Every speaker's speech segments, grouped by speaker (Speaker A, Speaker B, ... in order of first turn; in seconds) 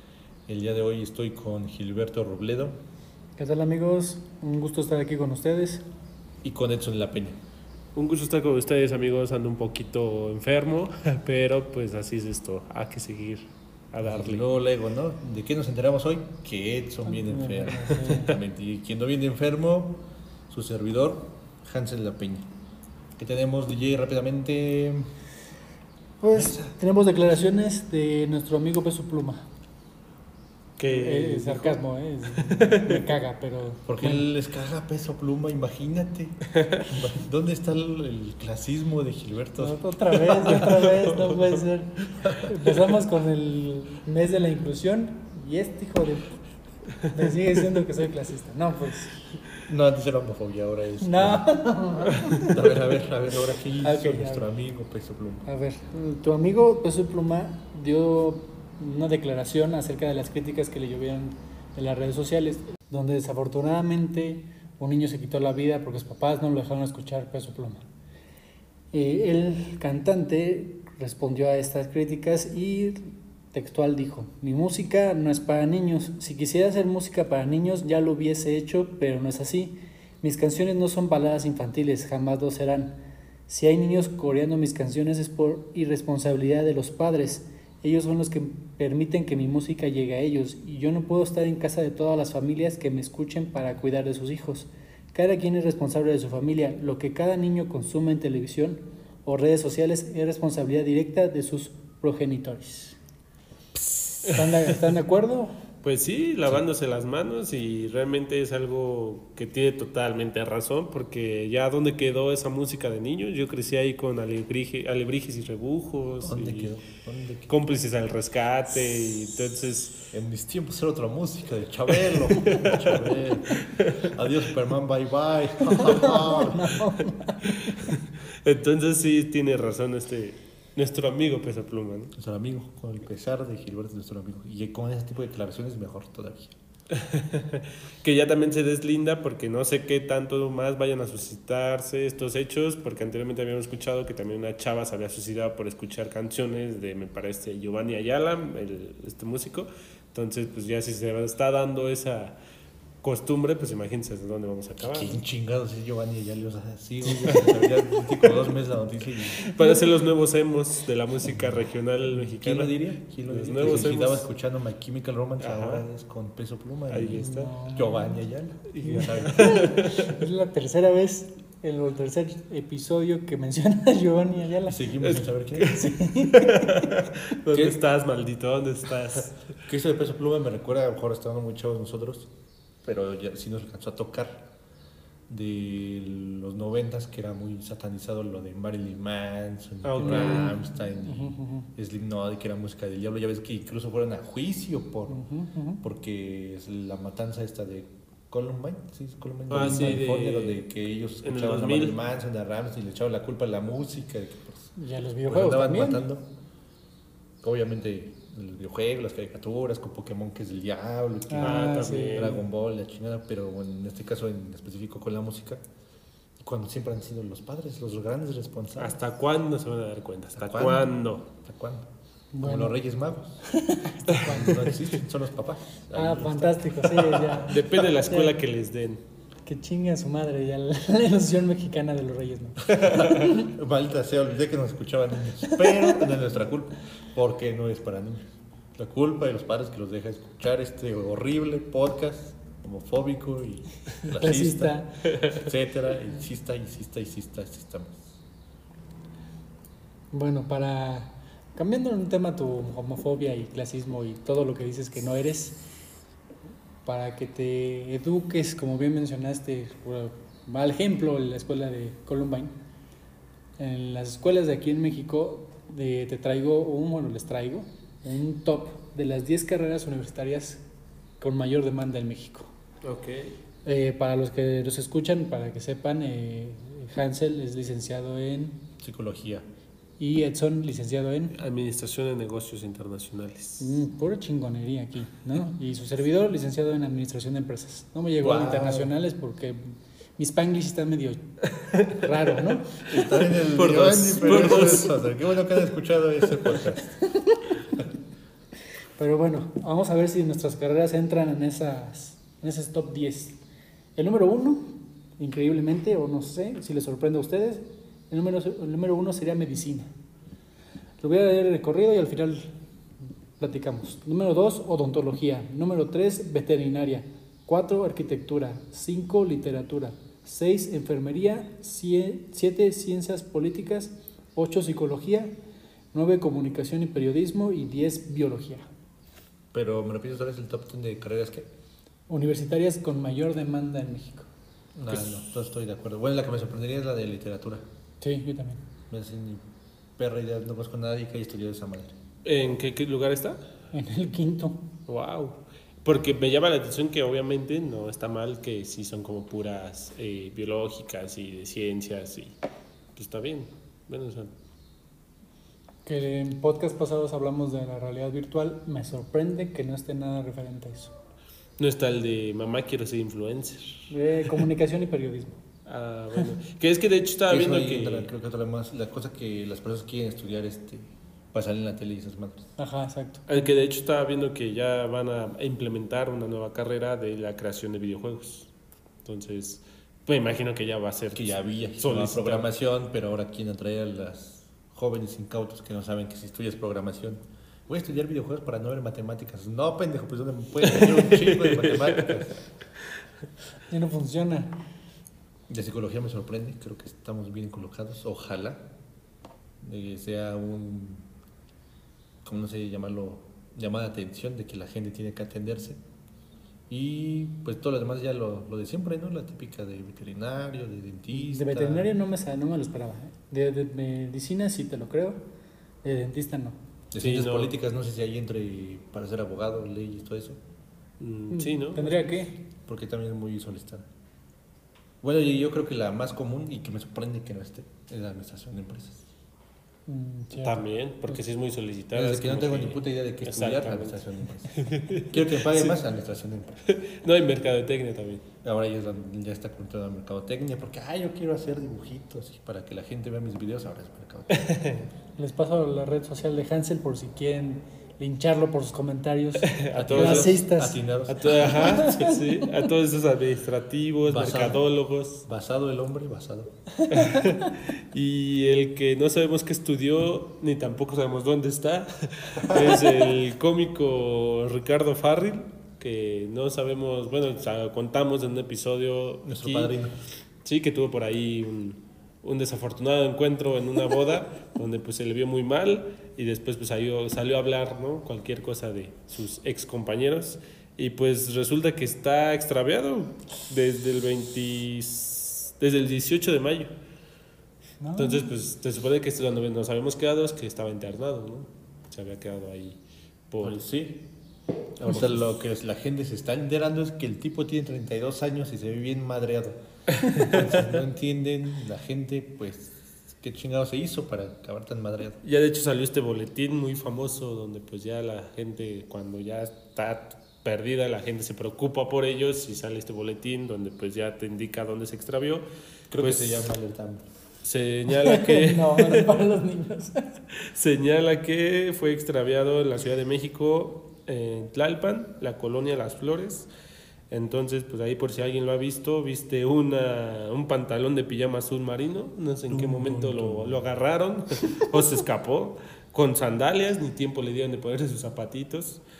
Speaker A: 0.5-2.8, 6.4-7.4, 14.0-22.5, 23.2-25.1, 26.3-26.7, 33.9-40.8, 42.2-42.5, 49.7-51.6, 52.3-55.4, 103.8-104.2, 116.2-117.5, 120.1-127.0, 132.1-136.6, 154.8-159.4, 162.1-169.8, 174.6-175.8, 177.5-177.8, 179.6-182.3, 182.8-184.5, 185.3-195.2, 195.8-204.7, 205.3-206.3, 207.4-215.6, 216.4-219.0, 220.4-221.9, 222.4-223.4, 224.2-227.8, 232.6-248.1, 278.8-279.5, 288.2-288.9, 292.9-297.0, 329.5-331.5, 334.7-337.6, 338.9-339.4, 340.0-341.9, 367.2-372.5, 381.1-392.4, 395.5-398.7, 399.6-401.1, 402.2-405.8, 406.7-411.9, 416.9-420.4, 422.6-423.9, 425.0-429.0, 431.9-436.6, 438.4-444.5, 449.7-451.9, 454.1-454.6, 455.2-456.6, 469.2-469.9, 493.4-494.0, 494.8-505.2, 515.9-517.0, 532.5-533.7
Speaker B: 3.4-5.8, 17.0-18.4, 26.2-29.5, 30.9-34.2, 39.6-46.4, 47.0-49.3, 51.0-52.9, 53.8-54.5, 55.4-67.8, 68.9-103.0, 104.2-105.5, 125.7-127.6, 159.4-159.7, 167.2-168.2, 168.8-175.0, 175.7-176.7, 190.0-191.7, 195.1-195.8, 204.8-206.0, 211.3-212.4, 222.3-222.8, 223.4-224.8, 225.9-228.4, 229.4-233.4, 244.0-244.9, 250.1-255.6, 256.8-262.6, 263.6-270.6, 271.2-272.5, 273.6-278.6, 280.0-281.4, 283.6-291.3, 291.9-293.0, 299.0-303.4, 303.9-309.9, 311.0-312.5, 313.4-325.3, 325.9-328.7, 332.1-334.3, 338.0-338.6, 343.7-344.6, 355.9-360.9, 363.9-365.4, 372.6-373.4, 393.7-394.6, 411.1-415.2, 415.8-416.6, 421.3-422.3, 429.9-431.2, 445.2-450.8, 451.6-452.3, 487.8-488.3, 517.9-520.0
Speaker C: 7.9-14.4, 30.8-31.8, 32.3-33.0, 40.6-41.3, 105.8-116.8, 117.5-120.1, 122.1-124.1, 127.5-132.1, 136.9-152.3, 153.0-155.2, 157.1-158.4, 159.4-164.3, 165.4-165.8, 166.9-167.5, 168.7-170.1, 175.0-179.6, 189.8-190.6, 199.5-200.7, 201.2-201.9, 211.4-212.4, 218.8-221.2, 227.4-229.0, 272.8-273.4, 281.3-283.8, 291.5-292.0, 292.9-295.0, 334.9-335.2, 342.2-343.4, 344.9-352.4, 352.9-354.3, 361.6-363.9, 365.6-368.1, 373.3-378.5, 379.0-382.5, 390.6-392.2, 417.0-417.5, 421.0-422.1, 430.4-434.0, 434.5-435.8, 436.7-438.2, 444.3-444.9, 449.4-450.4, 451.1-455.2, 456.9-469.7, 470.4-486.7, 488.0-492.8, 493.3-493.6, 500.0-500.6, 505.2-516.5, 517.4-519.2, 520.3-526.5, 527.1-538.8